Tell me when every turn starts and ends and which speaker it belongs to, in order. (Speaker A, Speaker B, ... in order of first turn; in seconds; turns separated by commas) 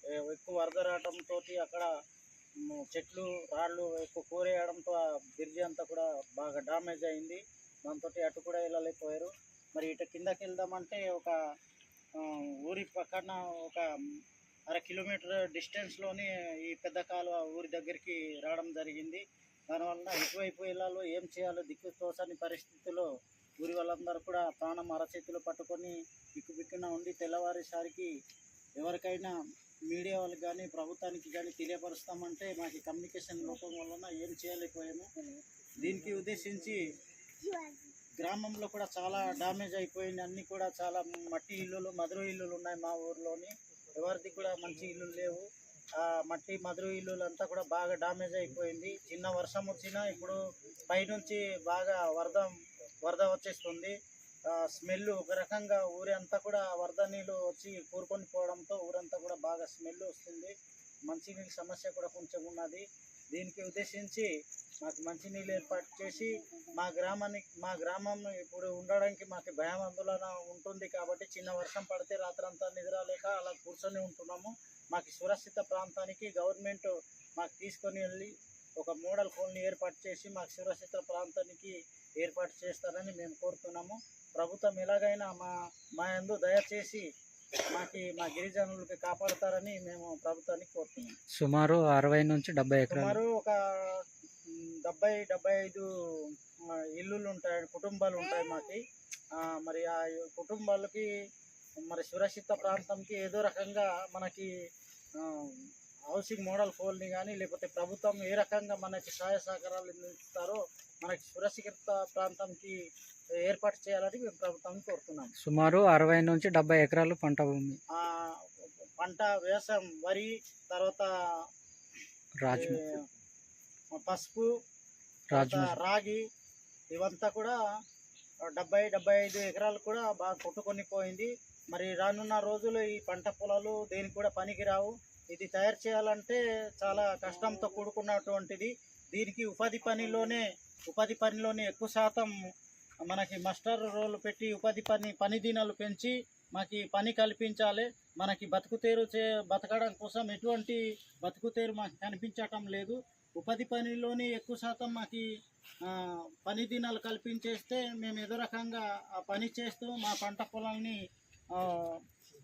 Speaker A: 0.2-1.9, Speaker A: 2.7-11.4, Speaker A: 12.2-13.8, Speaker A: 14.7-23.1, Speaker A: 23.6-28.1, Speaker A: 28.8-29.3, Speaker A: 29.9-35.1, Speaker A: 35.8-36.8, Speaker A: 38.2-45.5, Speaker A: 46.0-53.9, Speaker A: 54.5-60.5, Speaker A: 61.1-64.3, Speaker A: 64.8-87.0, Speaker A: 87.7-91.1, Speaker B: 91.4-93.2, Speaker A: 92.9-95.9, Speaker A: 96.9-98.8, Speaker A: 99.4-101.1, Speaker A: 101.8-104.5, Speaker A: 105.2-112.8, Speaker A: 113.4-115.3, Speaker B: 115.4-117.8, Speaker A: 117.9-118.3, Speaker A: 119.0-121.1, Speaker B: 122.4-122.8, Speaker A: 122.5-123.0, Speaker A: 124.0-124.5, Speaker A: 125.3-126.2, Speaker B: 125.3-125.8, Speaker A: 126.9-127.6, Speaker A: 128.5-142.3, Speaker A: 143.1-155.2, Speaker A: 155.8-161.0, Speaker A: 161.5-162.0